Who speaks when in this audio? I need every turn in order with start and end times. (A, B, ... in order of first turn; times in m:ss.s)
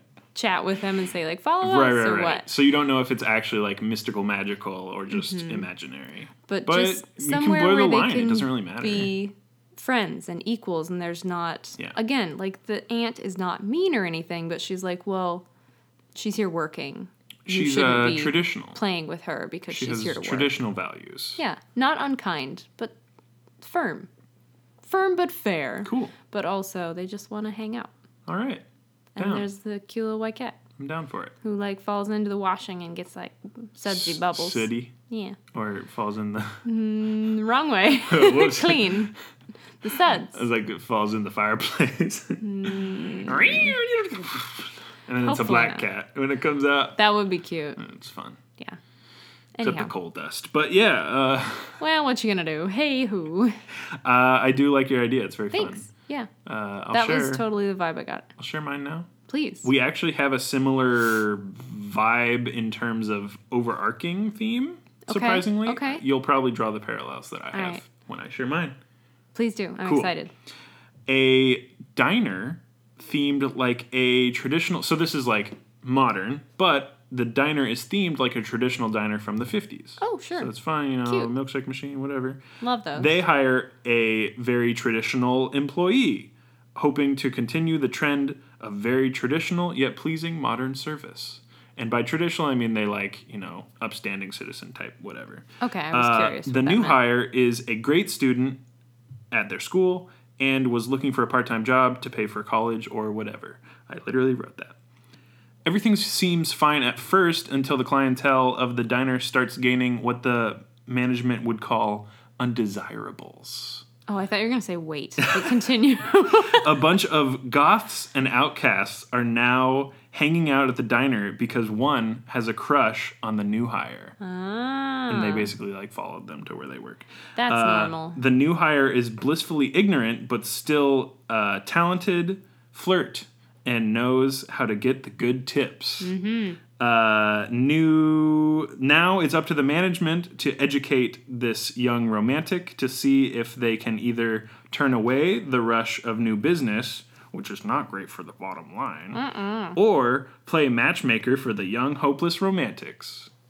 0:00.3-0:02.5 A
0:01.6-0:09.1 B
0:05.1-0:05.7 A
0:06.5-0:15.5 A
0:16.2-0:20.6 A
0:17.5-0:18.8 B
0:19.7-0:21.4 B
0:21.4-0:23.0 A
0:23.6-0:24.1 A
0:24.8-0:27.9 A
0:25.8-0:26.2 B
0:28.3-0:28.6 B
0:29.2-0:30.6 A
0:29.2-0:29.5 B
0:30.8-0:31.4 B
0:31.4-0:35.4 A
0:33.9-0:34.9 B
0:35.5-0:36.6 B
0:36.6-0:39.1 A
0:37.9-0:39.1 B
0:39.8-0:40.4 A
0:40.0-0:47.0 B
0:42.4-0:43.8 A
0:45.2-0:45.9 A
0:47.0-0:47.8 A
0:47.8-0:48.4 B
0:49.6-0:49.9 A
0:49.6-0:51.8 B
0:51.8-0:53.6 A
0:53.7-0:55.9 B
0:55.5-0:56.3 A
0:56.4-0:57.5 B
0:56.9-0:58.3 A
0:58.4-0:59.1 B
0:59.3-0:59.7 A
0:59.6-1:08.8 B
1:05.1-1:06.0 A
1:07.5-1:07.8 A
1:09.4-1:10.3 A
1:09.8-1:10.1 B
1:11.1-1:22.4 B
1:20.0-1:20.5 A
1:21.1-1:21.3 A
1:22.6-1:23.2 A
1:22.9-1:38.6 B
1:35.6-1:37.0 A
1:39.3-1:44.8 B
1:45.6-1:53.8 B
1:54.1-1:56.8 A
1:55.2-1:55.6 B
1:56.4-2:04.2 B
2:04.2-2:05.5 A
2:05.1-2:16.1 B
2:07.4-2:08.2 A
2:16.0-2:16.6 A
2:16.8-2:29.2 B
2:29.1-2:29.8 A
2:29.8-2:33.3 B